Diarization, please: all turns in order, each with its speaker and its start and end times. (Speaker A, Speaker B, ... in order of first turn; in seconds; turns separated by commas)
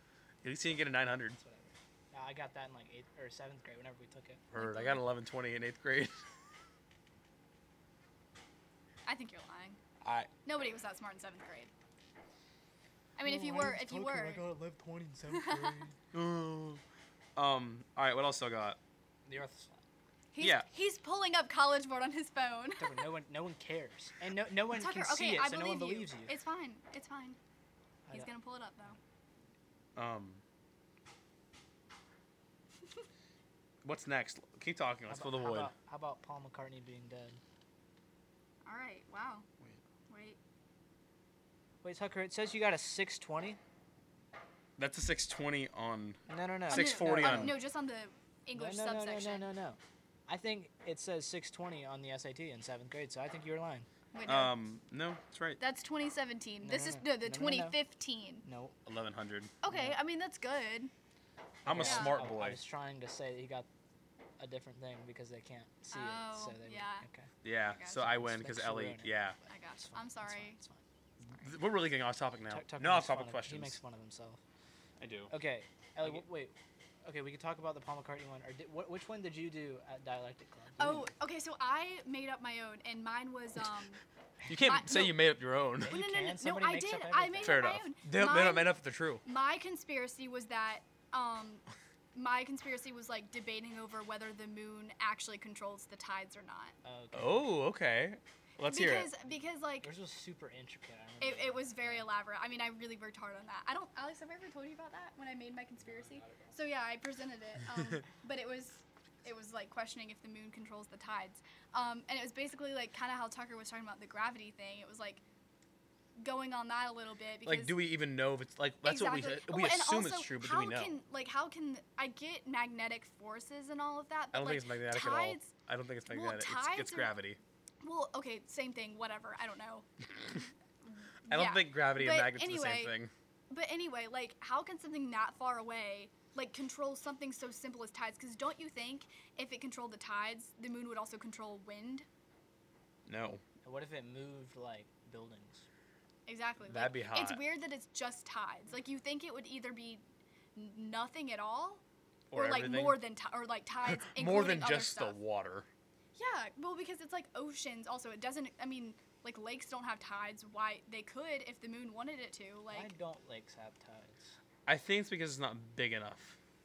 Speaker A: 0.4-1.4, Speaker B: 1.3-4.4, Speaker A: 4.5-6.1, Speaker C: 4.5-5.0, Speaker C: 9.1-9.8, Speaker A: 10.0-10.3, Speaker C: 10.4-11.7, Speaker C: 13.2-14.4, Speaker B: 13.2-15.9, Speaker C: 15.3-15.8, Speaker A: 16.1-16.8, Speaker A: 17.4-18.8, Speaker B: 19.3-19.8, Speaker C: 20.3-23.1, Speaker A: 20.4-20.6, Speaker B: 22.8-26.4, Speaker C: 24.7-27.4, Speaker C: 28.1-29.0, Speaker A: 29.9-30.4, Speaker A: 33.8-35.7, Speaker B: 35.1-37.4, Speaker C: 38.6-39.5, Speaker C: 40.1-40.4, Speaker B: 41.8-43.6, Speaker A: 44.8-47.6, Speaker B: 46.3-47.6, Speaker C: 46.7-49.5, Speaker B: 48.5-53.9, Speaker C: 54.1-54.5, Speaker A: 54.3-55.6, Speaker C: 55.6-58.4, Speaker B: 56.6-57.8, Speaker B: 58.4-58.8, Speaker A: 58.9-59.5, Speaker C: 59.6-60.9, Speaker B: 59.7-60.0, Speaker A: 61.6-62.6, Speaker B: 61.6-63.7, Speaker C: 61.8-62.2, Speaker B: 64.4-67.3, Speaker C: 65.9-67.1, Speaker A: 67.4-69.4, Speaker C: 67.7-68.1, Speaker B: 67.9-70.8, Speaker C: 69.5-70.6, Speaker A: 71.2-73.8, Speaker B: 72.5-74.4, Speaker A: 75.0-75.3, Speaker B: 75.3-81.1, Speaker C: 80.8-84.0, Speaker A: 84.5-86.0, Speaker C: 84.6-85.2, Speaker B: 85.8-87.6, Speaker C: 85.8-96.8, Speaker A: 87.4-89.2, Speaker B: 96.8-97.5, Speaker A: 97.1-99.1, Speaker C: 98.6-99.9, Speaker B: 99.8-102.1, Speaker C: 101.2-115.2, Speaker B: 105.8-106.5, Speaker C: 116.2-117.8, Speaker A: 117.4-120.9, Speaker C: 118.8-125.5, Speaker A: 124.3-127.4, Speaker C: 126.1-127.1, Speaker C: 127.8-129.9, Speaker C: 131.2-132.9, Speaker A: 131.3-133.1, Speaker C: 133.5-142.1, Speaker A: 143.1-143.4, Speaker B: 143.6-145.7, Speaker C: 146.3-150.0, Speaker A: 146.7-147.4, Speaker C: 150.6-151.8, Speaker A: 152.3-153.0, Speaker C: 152.3-155.2, Speaker A: 153.8-155.7, Speaker C: 156.2-162.9, Speaker B: 162.7-164.4, Speaker A: 164.7-166.4